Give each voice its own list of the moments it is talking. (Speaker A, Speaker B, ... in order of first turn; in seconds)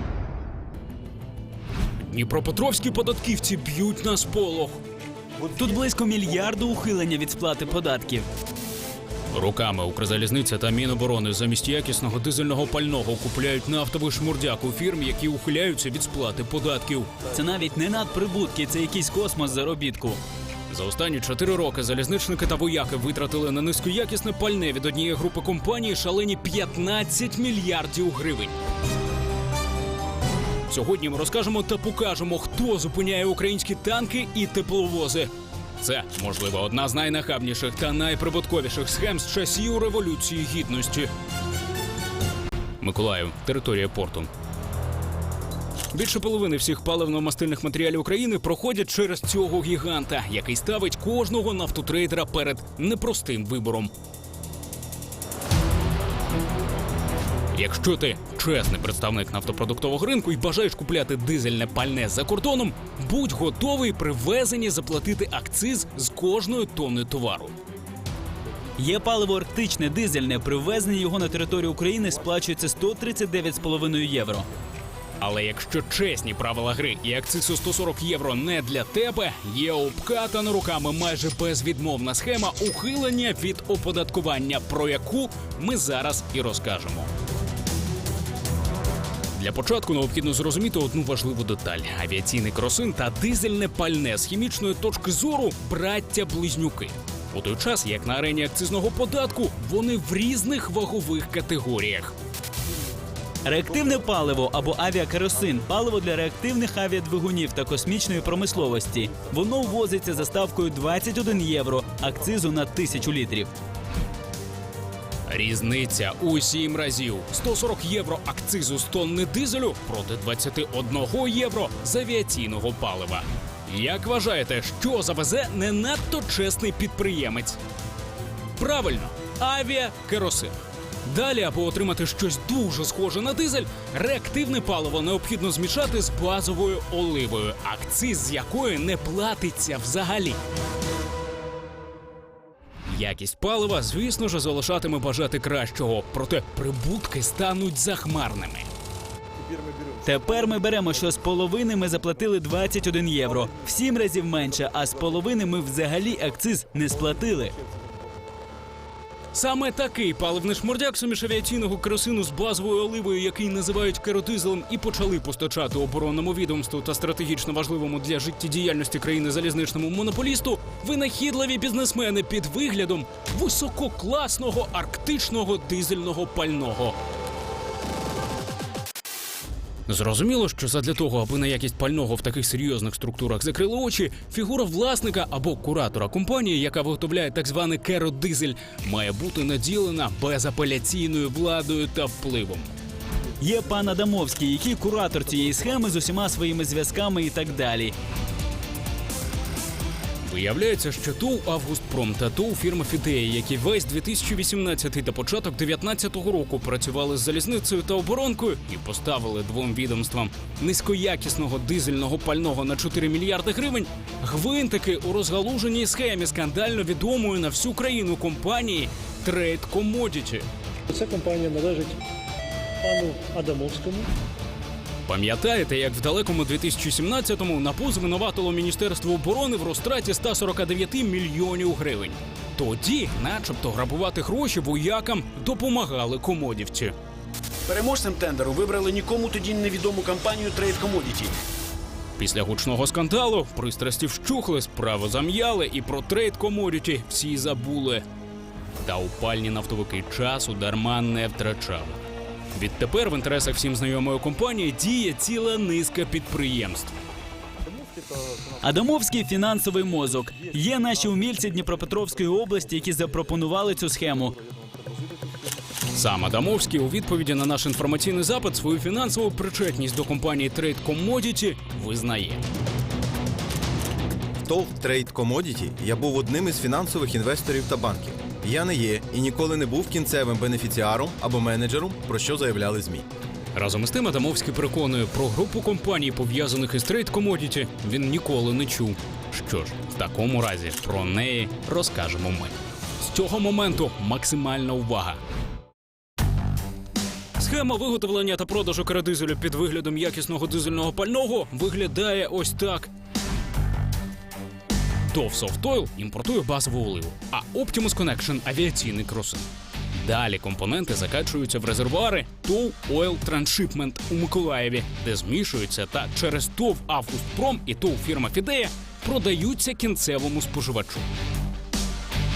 Speaker A: 2.0-4.8, 9.3-17.3, 20.7-28.6, 30.7-41.1, 42.8-44.3, 45.9-53.9, 57.5-67.5, 75.2-87.1, 89.3-102.1, 115.3-127.6, 128.6-130.5, 131.1-140.4, 142.9-148.7, 159.3-177.0, 179.9-192.7, 200.2-220.5, 225.1-236.9, 242.2-248.0, 248.8-252.0, 252.5-256.9, 265.9-272.4, 283.5-295.2, 297.4-302.9, 305.1-321.1
Speaker B: 5.4-8.3, 17.3-20.2, 68.8-74.5, 103.4-113.5, 150.0-157.6, 193.4-197.9, 258.6-264.4
Speaker C: 220.9-222.0, 222.8-224.1
Speaker D: 237.7-241.4
Speaker E: 274.4-283.1